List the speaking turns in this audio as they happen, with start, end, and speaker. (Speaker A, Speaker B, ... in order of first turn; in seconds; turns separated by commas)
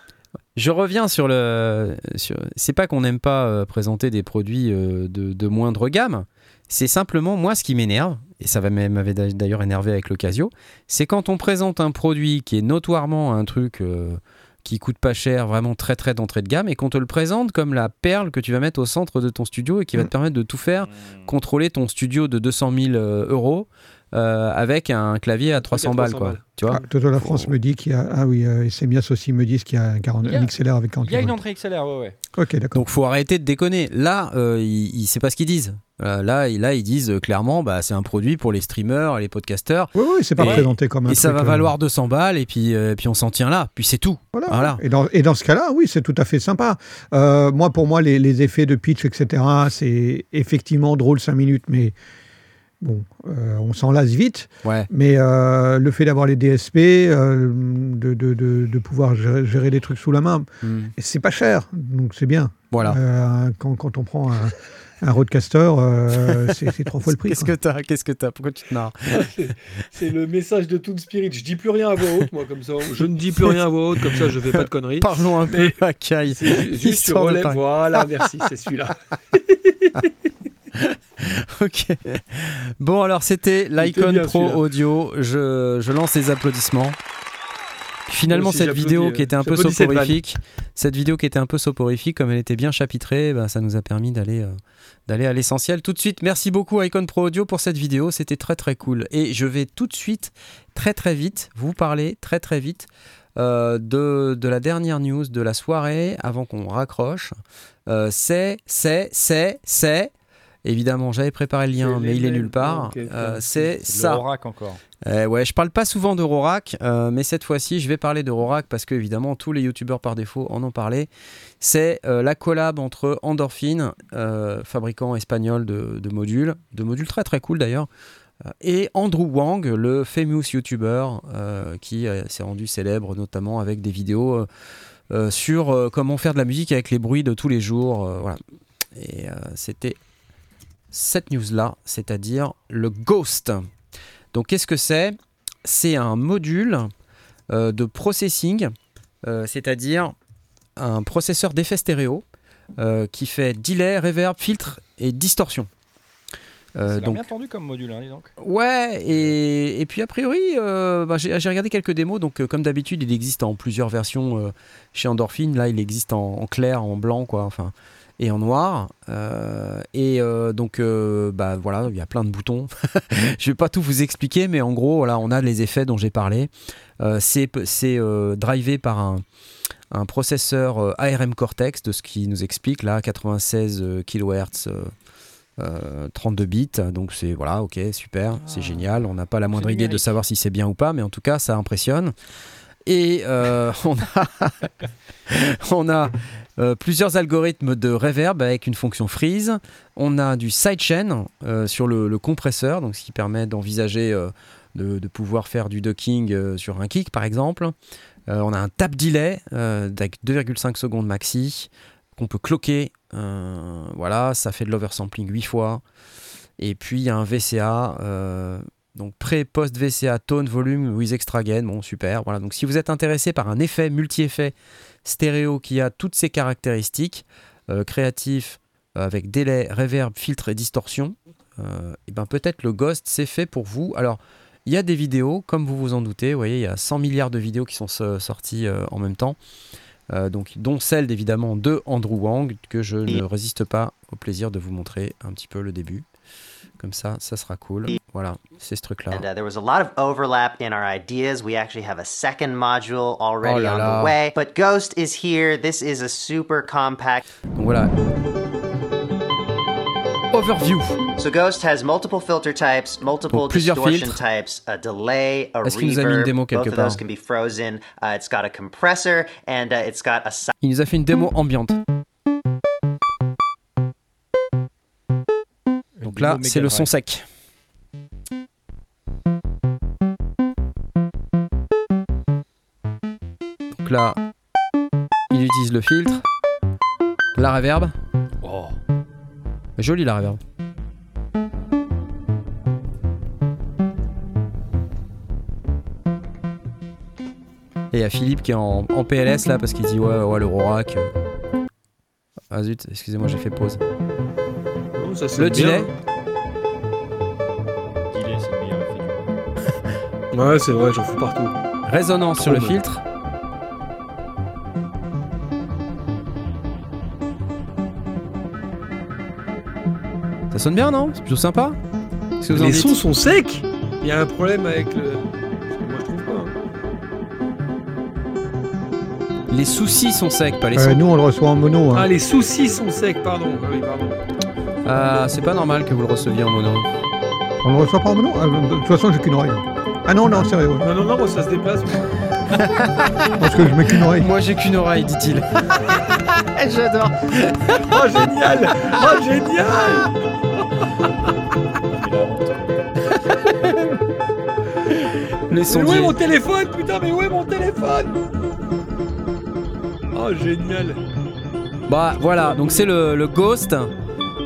Speaker A: 0.5-27.5, Speaker B: 20.8-21.3, Speaker C: 25.6-26.9, Speaker D: 26.7-31.4, Speaker B: 30.2-32.1, Speaker D: 32.3-32.8, Speaker A: 32.7-44.8, Speaker D: 39.9-41.7, Speaker B: 40.4-40.6, Speaker D: 44.3-51.9, Speaker D: 52.8-67.5, Speaker A: 60.6-60.9, Speaker A: 62.7-63.0, Speaker A: 67.0-69.2, Speaker C: 69.1-75.8, Speaker A: 74.6-77.6, Speaker C: 76.3-80.1, Speaker A: 80.7-87.0, Speaker C: 83.8-84.6, Speaker A: 88.1-94.5, Speaker C: 88.3-90.2, Speaker A: 95.1-107.3, Speaker A: 107.9-110.1, Speaker A: 110.6-114.2, Speaker C: 111.7-113.6, Speaker B: 113.8-114.8, Speaker A: 115.0-121.1, Speaker A: 121.6-127.9, Speaker A: 128.5-134.4, Speaker A: 135.1-138.4, Speaker A: 138.9-140.0, Speaker A: 140.9-143.7, Speaker A: 144.3-146.9, Speaker A: 147.5-148.7, Speaker A: 149.2-150.1, Speaker A: 150.8-152.2, Speaker A: 152.8-155.7, Speaker A: 156.8-157.2, Speaker B: 156.9-158.3, Speaker A: 158.4-179.2, Speaker A: 179.9-184.9, Speaker A: 185.6-192.1, Speaker B: 188.4-188.9, Speaker B: 189.5-190.1, Speaker A: 192.8-194.7, Speaker A: 195.3-207.7, Speaker A: 208.3-215.8, Speaker A: 216.6-239.4, Speaker A: 240.1-246.1, Speaker A: 246.8-249.2, Speaker E: 249.1-257.2, Speaker A: 253.4-254.1, Speaker A: 257.5-258.2, Speaker A: 260.3-261.0, Speaker E: 261.2-270.5, Speaker A: 263.3-264.2, Speaker A: 265.6-267.0, Speaker A: 270.6-271.8, Speaker B: 276.0-276.9, Speaker A: 276.0-277.2, Speaker A: 283.7-284.2, Speaker A: 285.3-286.2, Speaker A: 287.3-287.9, Speaker B: 288.4-288.7, Speaker A: 289.8-290.4, Speaker A: 297.9-301.1, Speaker A: 302.5-303.8, Speaker C: 304.9-305.9, Speaker A: 305.4-305.9, Speaker B: 308.1-309.2, Speaker C: 310.3-311.6, Speaker A: 311.9-313.0, Speaker C: 312.4-312.8, Speaker A: 320.5-321.8, Speaker A: 322.4-322.9, Speaker C: 322.5-326.6, Speaker A: 329.5-331.0, Speaker D: 330.7-332.1, Speaker C: 331.9-334.2, Speaker A: 334.8-336.9, Speaker D: 337.6-340.9, Speaker C: 340.8-342.1, Speaker A: 342.6-343.2, Speaker D: 343.4-344.3, Speaker A: 344.1-348.3, Speaker C: 347.7-350.1, Speaker B: 351.9-353.5, Speaker A: 355.5-356.1, Speaker C: 355.7-358.2, Speaker C: 360.1-361.0, Speaker A: 361.9-363.9